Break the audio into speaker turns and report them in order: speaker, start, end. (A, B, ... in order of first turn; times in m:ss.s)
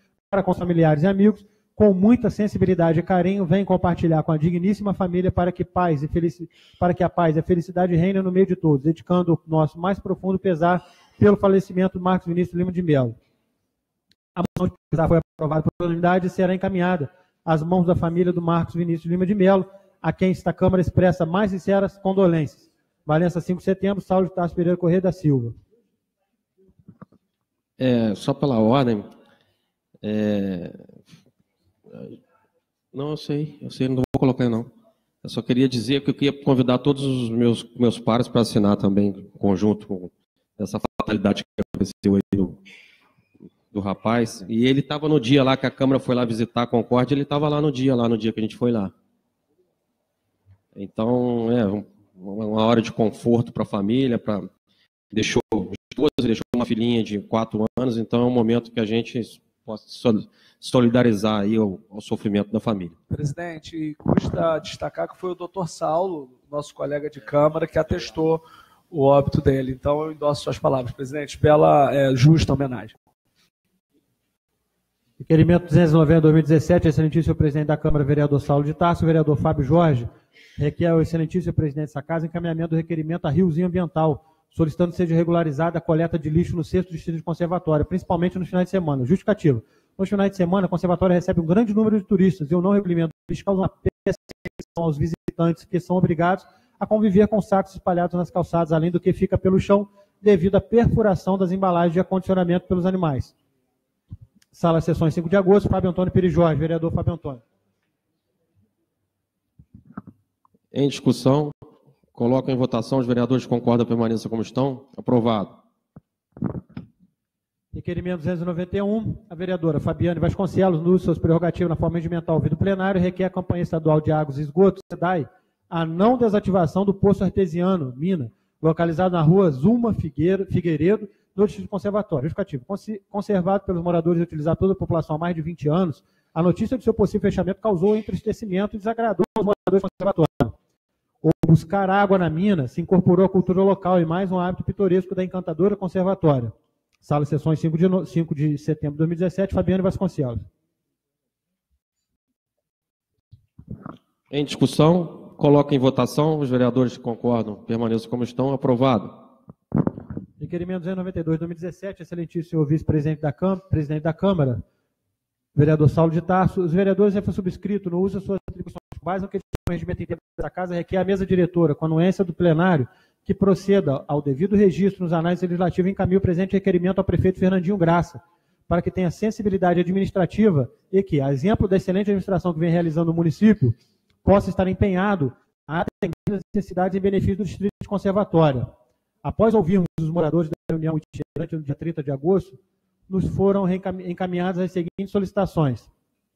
0:00.3-0:13.2 A
0:14.4-0:25.6 A
0:27.8-0:29.1 B
0:30.0-0:31.0 B
0:31.9-0:32.2 B
0:32.9-0:34.7 B
0:35.2-0:42.6 B
0:43.7-0:48.9 B
0:50.8-0:54.5 B
0:55.1-1:03.0 B
1:03.1-1:12.9 C
1:15.2-1:43.3 A
1:44.5-1:47.4 A
1:50.7-1:51.5 B
1:52.1-1:55.6 B
1:57.7-2:20.6 A
2:21.2-2:30.4 A
2:34.3-2:39.3 B
2:40.4-2:44.6 A
2:45.6-3:08.7 A
3:09.2-3:12.6 A
3:13.1-3:15.9 A